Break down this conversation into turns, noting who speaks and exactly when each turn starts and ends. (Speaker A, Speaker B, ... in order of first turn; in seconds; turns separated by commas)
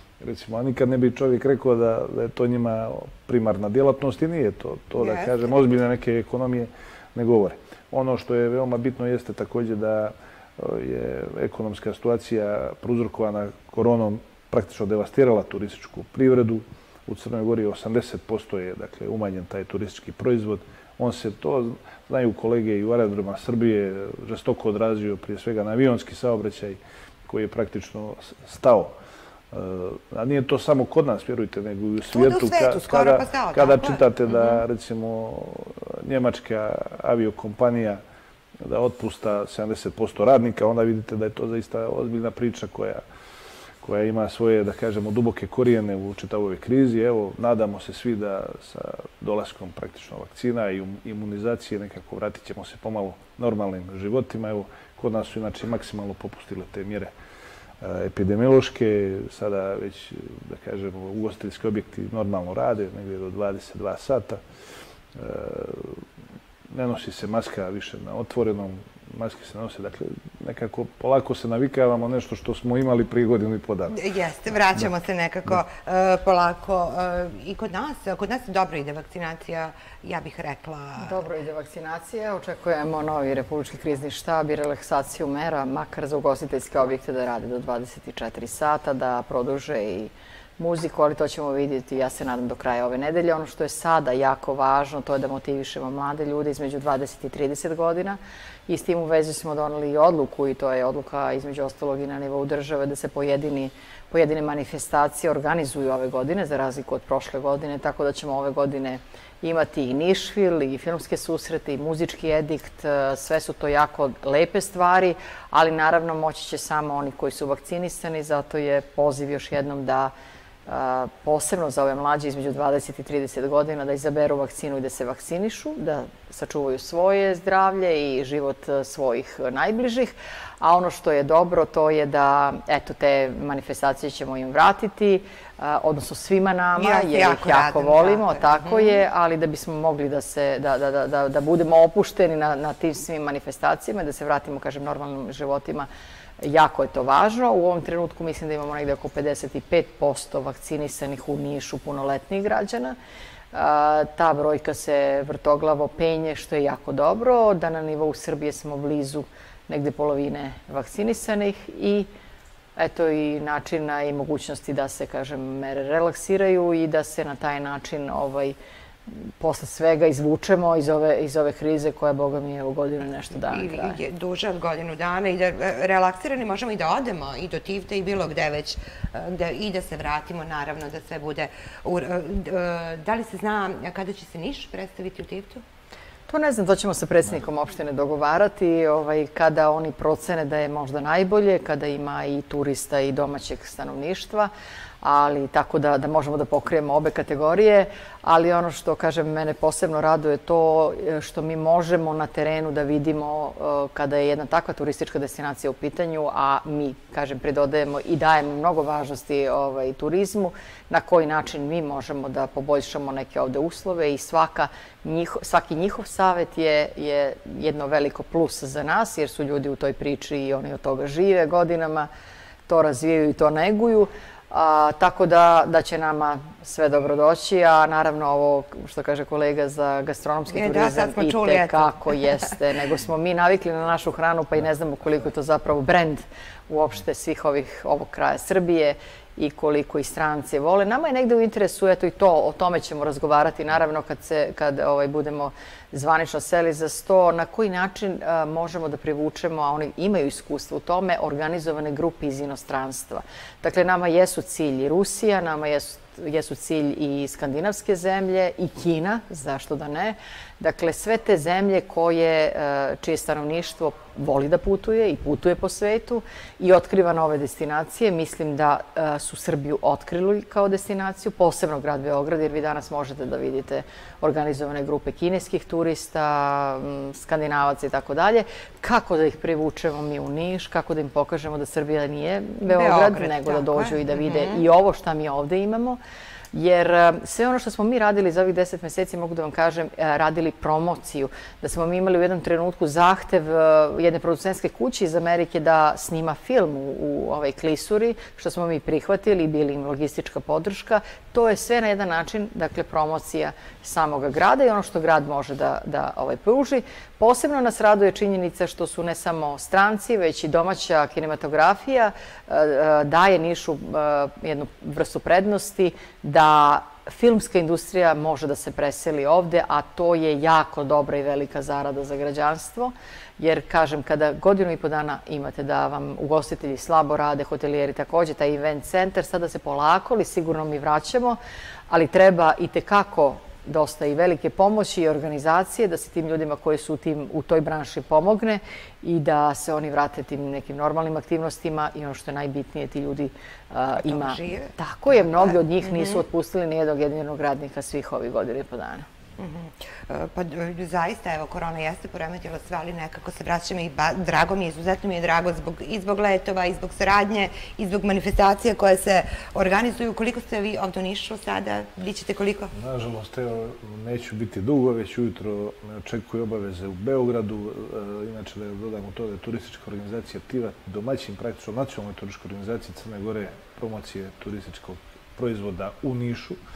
Speaker A: 0.2-28.9, Speaker B: 5.0-5.4, Speaker A: 29.5-38.0, Speaker B: 32.1-34.6, Speaker A: 38.6-43.0, Speaker A: 43.8-57.1, Speaker A: 57.8-64.4, Speaker A: 65.1-66.0, Speaker A: 66.7-74.0, Speaker B: 73.9-81.2, Speaker C: 81.0-120.1, Speaker C: 120.7-145.9, Speaker B: 136.8-139.0, Speaker C: 146.4-152.9, Speaker C: 153.5-162.1, Speaker C: 162.8-168.6, Speaker C: 169.1-174.0, Speaker B: 173.4-185.6, Speaker C: 186.3-194.5, Speaker C: 195.0-222.1, Speaker C: 222.7-286.0, Speaker B: 230.5-232.4, Speaker B: 282.6-284.6, Speaker C: 286.5-331.4, Speaker C: 331.9-349.1, Speaker B: 344.0-346.2, Speaker B: 349.4-362.7, Speaker A: 362.7-376.6